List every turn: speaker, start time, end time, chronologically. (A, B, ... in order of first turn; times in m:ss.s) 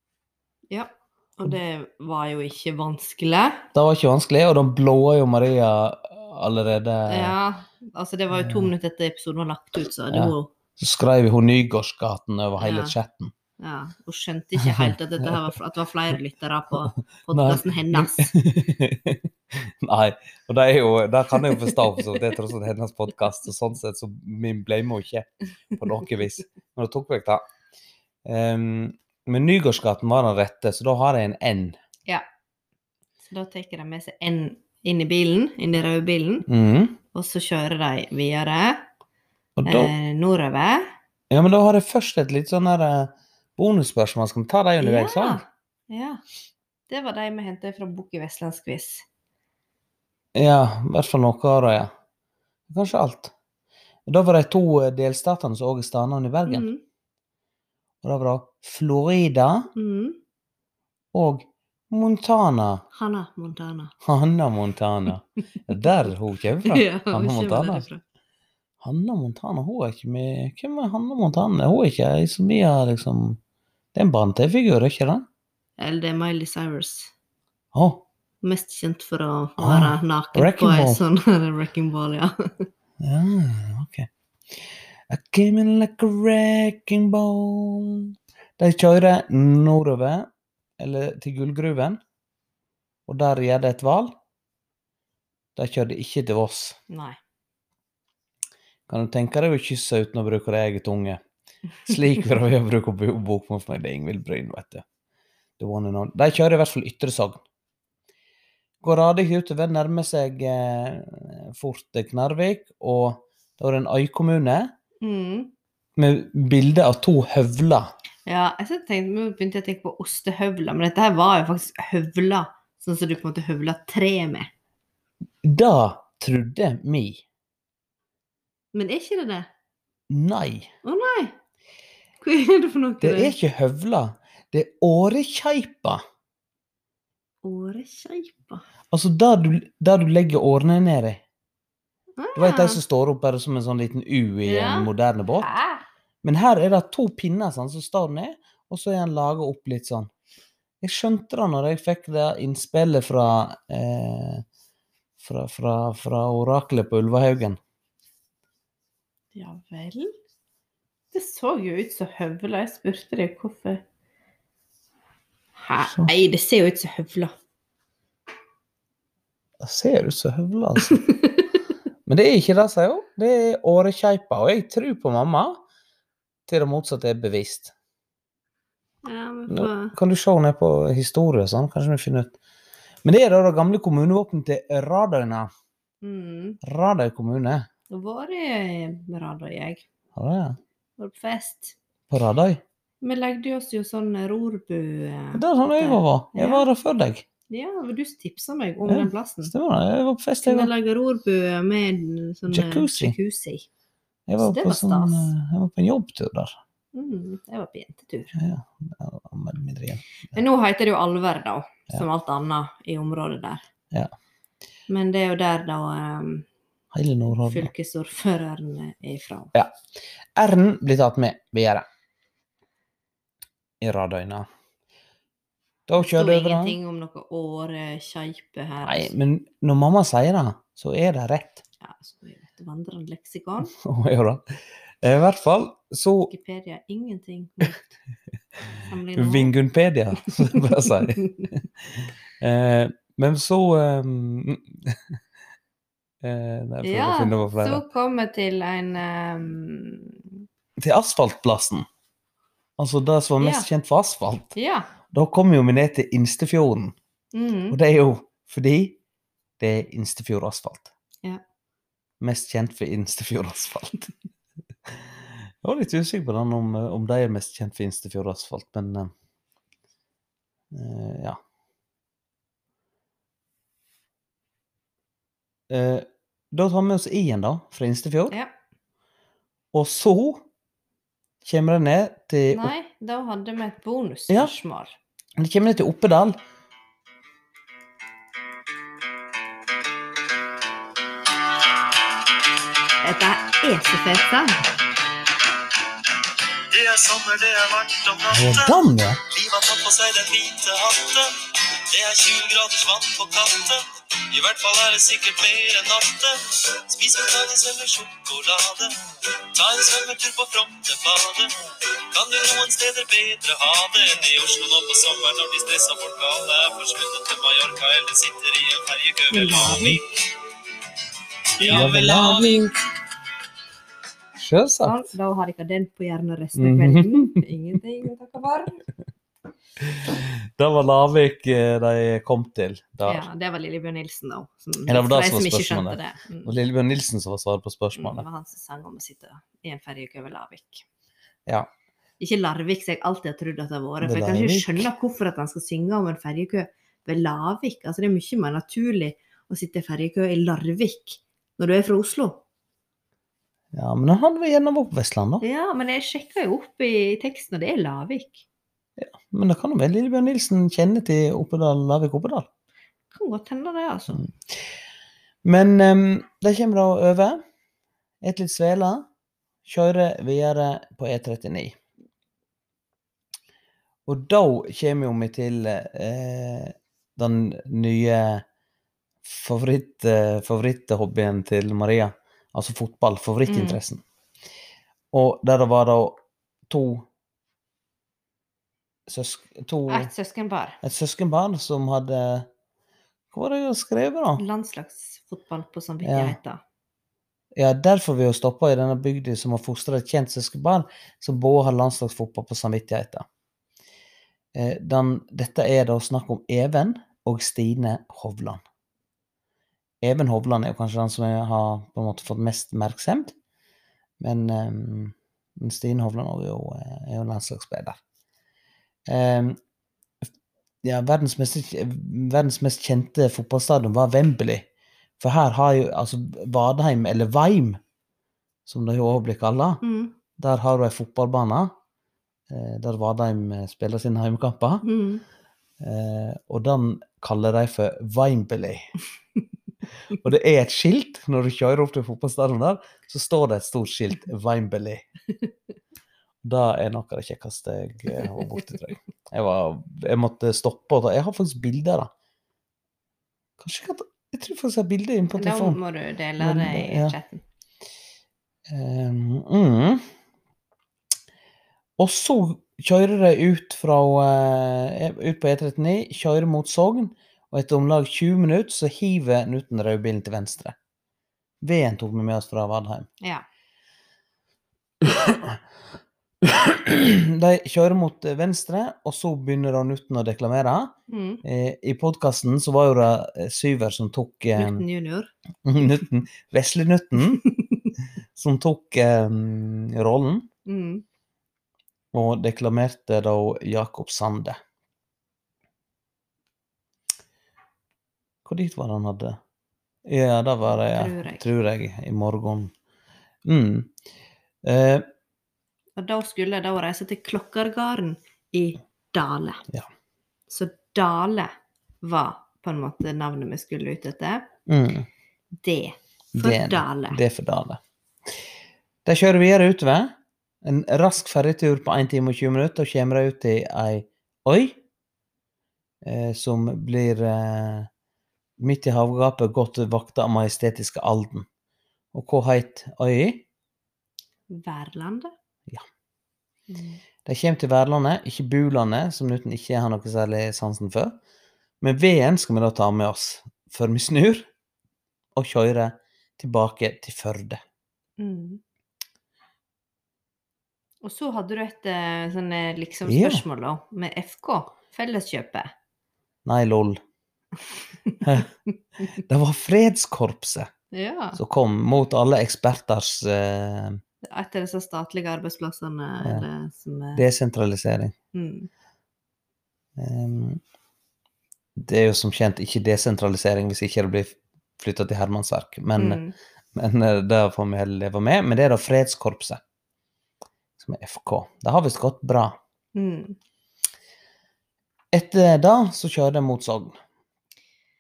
0:00.7-0:03.7 A
0:03.7-0:07.4 B
0:07.1-0:10.5 A
0:08.3-0:08.7 B
0:10.1-0:13.3 B
0:12.6-0:13.0 A
0:13.6-0:18.3 A
0:14.6-0:15.4 B
0:17.3-0:27.4 B
0:28.2-0:31.8 B
0:33.2-0:36.5 A
0:36.5-0:37.0 B
0:37.1-0:38.9 A
0:39.6-0:39.9 B
0:39.6-0:40.9 A
0:41.3-0:45.4 B
0:44.8-0:46.2 A
0:46.9-0:49.0 A
0:50.4-0:51.9 B
0:52.7-0:53.3 B
0:54.1-0:56.7 B
0:56.5-0:56.8 A
0:58.0-0:59.7 B
0:59.8-1:00.2 A
1:01.1-1:02.8 B
1:02.9-1:03.9 A
1:04.0-1:07.9 B
1:06.6-1:08.0 A
1:08.8-1:13.4 B
1:14.0-1:15.3 B
1:15.8-1:17.1 A
1:17.7-1:18.0 B
1:18.4-1:22.7 A
1:19.6-1:21.0 B
1:23.0-1:24.1 B
1:25.1-1:30.3 B
1:30.8-1:32.0 B
1:33.1-1:34.1 B
1:35.6-1:36.8 B
1:36.9-1:37.2 A
1:38.9-1:41.2 B
1:41.8-1:44.8 B
1:45.6-1:47.4 B
1:48.8-1:54.7 B
1:55.0-1:55.5 A
1:56.0-1:57.9 B
1:58.3-2:04.5 A
2:05.4-2:07.2 B
2:08.7-2:09.5 A
2:10.1-2:10.7 B
2:10.8-2:11.4 A
2:12.2-2:13.4 A
2:13.0-2:16.0 B
2:17.4-2:18.6 A
2:18.9-2:21.2 B
2:22.2-2:22.8 A
2:22.4-2:25.5 B
2:24.4-2:25.8 A
2:26.2-2:30.1 B
2:30.8-2:34.4 B
2:35.2-2:37.6 B
2:39.4-2:40.1 A
2:41.1-2:43.8 A
2:45.6-2:47.4 A
2:45.8-2:46.1 B
2:49.6-2:51.0 B
2:50.9-2:51.4 A
2:52.1-2:55.6 B
2:56.5-2:57.7 B
2:59.0-3:00.0 A
2:59.5-3:02.4 B
3:03.0-3:05.5 B
3:06.0-3:06.6 A
3:06.6-3:07.7 B
3:07.9-3:09.8 A
3:10.2-3:10.6 B
3:11.0-3:11.8 A
3:12.1-3:12.6 B
3:13.0-3:16.7 A
3:15.3-3:17.3 B
3:17.5-3:19.5 A
3:18.9-3:20.7 B
3:20.4-3:23.7 A
3:22.5-3:23.2 B
3:24.3-3:26.6 B
3:24.4-3:25.3 A
3:26.9-3:28.4 A
3:28.3-3:30.4 B
3:30.3-3:33.6 A
3:34.9-3:36.5 A
3:36.9-3:37.7 B
3:37.3-3:39.5 A
3:40.4-3:41.9 B
3:43.8-3:44.5 B
3:45.9-3:46.8 B
3:46.0-3:49.2 A
3:48.8-3:51.6 B
3:51.8-3:53.8 A
3:53.7-3:54.4 B
3:55.0-3:56.3 B
3:56.3-3:58.0 A
3:58.9-3:59.6 A
3:59.2-4:05.0 B
4:06.2-4:07.8 B
4:06.8-4:10.3 A
4:10.8-4:11.9 B
4:12.8-4:14.5 B
4:13.4-4:13.7 A
4:14.6-4:14.9 A
4:15.1-4:17.0 B
4:17.3-4:17.8 A
4:17.7-4:19.0 B
4:19.6-4:20.9 B
4:22.2-4:24.1 B
4:24.9-4:29.1 B
4:30.7-4:31.4 B
4:35.7-4:38.4 B
4:39.7-4:40.5 B
4:41.4-4:42.7 B
4:42.5-4:45.0 A
4:45.4-4:46.4 B
4:53.0-4:54.6 A
4:56.7-4:58.8 C
4:58.3-4:59.2 B
4:59.3-5:20.2 C
5:19.3-5:20.0 A
5:21.6-5:22.8 C
5:21.6-5:22.7 B
5:24.4-5:25.1 B
5:24.8-5:28.9 A
5:26.6-5:27.4 B
5:29.8-5:33.3 B
5:33.0-5:36.6 A
5:34.9-5:38.2 B
5:38.0-5:40.8 A
5:42.2-5:52.4 A
5:44.0-5:44.8 B
5:53.7-5:55.4 B
5:55.4-5:58.4 A
5:59.0-6:02.5 B
6:03.1-6:04.3 A
6:05.4-6:07.4 B
6:08.2-6:09.1 B
6:09.6-6:11.8 B
6:14.1-6:18.4 B
6:19.2-6:24.0 B
6:23.5-6:23.8 A
6:25.1-6:27.1 B
6:29.1-6:30.1 B
6:29.9-6:30.8 A
6:30.8-6:32.5 B
6:33.3-6:34.4 B
6:34.4-6:36.6 A
6:36.0-6:36.4 B
6:37.6-6:43.3 B
6:44.6-6:48.6 B
6:50.0-6:53.4 B
6:54.2-6:58.0 B
6:59.1-6:59.6 B
7:00.8-7:04.7 B
7:05.2-7:07.8 B
7:08.7-7:09.8 B
7:09.8-7:10.1 A
7:10.4-7:11.7 B
7:12.5-7:14.9 B
7:14.8-7:15.2 A
7:15.8-7:18.9 B
7:20.1-7:25.1 B
7:26.4-7:32.1 B
7:33.6-7:35.8 B
7:35.4-7:37.4 A
7:36.4-7:37.2 B
7:38.7-7:40.1 B
7:42.0-7:50.8 B
7:51.6-7:53.1 B
7:55.0-7:55.6 B
7:56.4-8:04.8 B
8:01.1-8:01.4 A
8:04.6-8:05.3 A
8:05.6-8:07.4 B
8:08.3-8:10.5 B
8:10.7-8:11.0 A
8:12.1-8:14.6 B
8:18.4-8:19.4 B
8:20.0-8:22.7 B
8:20.8-8:21.5 A
8:23.4-8:23.9 B
8:24.6-8:25.1 B
8:26.0-8:29.6 A
8:30.5-8:31.5 A
8:32.0-8:34.5 A
8:34.7-8:35.1 B
8:35.6-8:37.2 A
8:36.3-8:37.8 B
8:39.0-8:44.8 B
8:46.0-8:47.9 B
8:48.6-8:51.5 B
8:52.1-8:53.5 B
8:54.5-8:55.3 A
8:56.7-8:57.0 A
8:57.2-9:01.2 B
9:01.8-9:04.5 B
9:05.4-9:07.6 B
9:08.2-9:08.6 A
9:11.0-9:15.7 A
9:13.1-9:13.4 B
9:16.4-9:17.0 B
9:18.0-9:18.4 A
9:18.2-9:18.5 B
9:19.1-9:20.7 B
9:20.9-9:21.4 A
9:21.4-9:24.0 B
9:24.2-9:27.2 A
9:27.2-9:28.2 B
9:28.3-9:28.7 A
9:30.0-9:30.6 B
9:31.8-9:36.2 B
9:36.0-9:36.4 A
9:36.8-9:39.6 B
9:40.8-9:42.6 B
9:43.0-9:43.4 A
9:45.1-9:47.0 B